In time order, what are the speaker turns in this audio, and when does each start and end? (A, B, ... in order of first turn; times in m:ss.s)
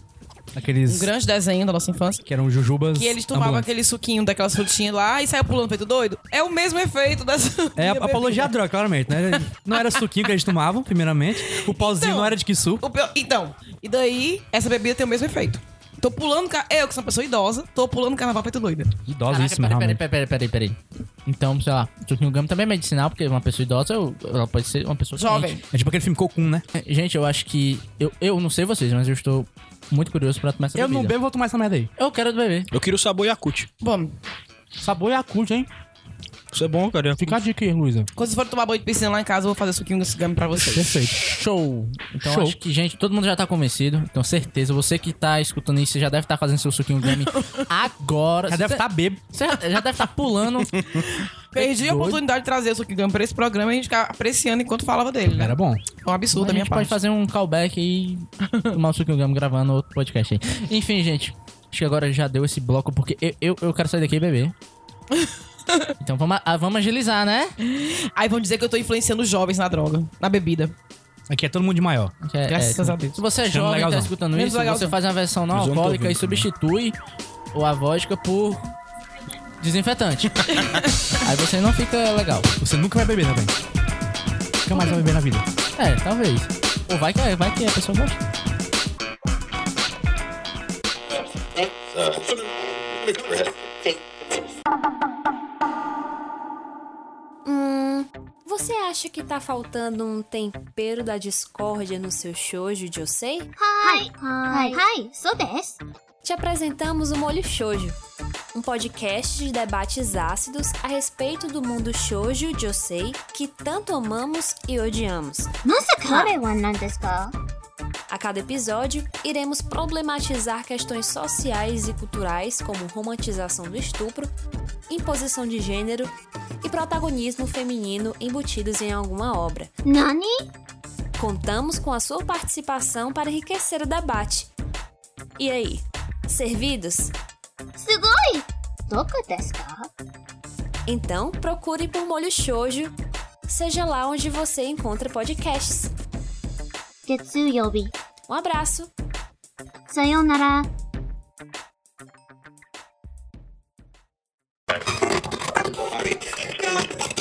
0:00.6-0:01.1 A
0:00.9-0:02.2 B
0:02.2-0:03.7 A
0:02.9-0:08.5 B
0:07.8-0:12.8 A
0:09.3-0:10.0 B
0:11.4-0:18.9 B
0:19.1-0:20.0 A
0:19.3-0:25.6 C
0:25.2-0:25.6 B
0:25.7-0:26.6 A
0:26.7-0:31.1 C
0:30.7-0:31.9 A
0:32.0-0:32.7 C
0:32.7-0:33.7 D
0:33.8-0:34.1 B
0:34.8-0:35.7 A
0:36.5-0:37.4 D
0:37.2-0:38.1 A
0:38.2-0:41.1 B
0:40.6-0:41.2 A
0:41.2-0:50.8 C
0:42.2-0:42.6 A
0:47.3-0:47.6 B
0:48.5-0:49.2 A
0:51.0-0:57.0 B
0:51.6-0:52.2 C
0:55.3-0:55.8 A
0:56.4-1:04.6 C
1:05.1-1:05.9 B
1:06.0-1:07.6 C
1:07.6-1:10.7 B
1:11.3-1:12.1 A
1:12.2-1:17.0 C
1:12.5-1:13.2 B
1:13.5-1:14.1 A
1:14.3-1:15.0 B
1:15.5-1:16.4 D
1:17.5-1:18.7 C
1:19.6-1:22.5 C
1:20.6-1:20.9 B
1:22.6-1:23.5 A
1:24.6-1:25.4 A
1:25.8-1:28.3 C
1:37.4-1:44.8 E
1:43.6-1:45.8 F
1:46.2-1:48.0 E
1:48.5-1:55.5 E
1:55.6-1:57.3 F
1:56.0-1:56.4 E
1:58.1-2:04.3 E
2:04.9-2:09.7 E
2:09.8-2:10.5 F
2:11.2-2:14.5 E
2:15.4-2:17.1 E
2:17.8-2:19.9 F
2:20.9-2:22.9 E
2:23.5-2:25.9 E
2:27.1-2:27.9 F
2:28.3-2:28.9 E
2:29.9-2:30.7 F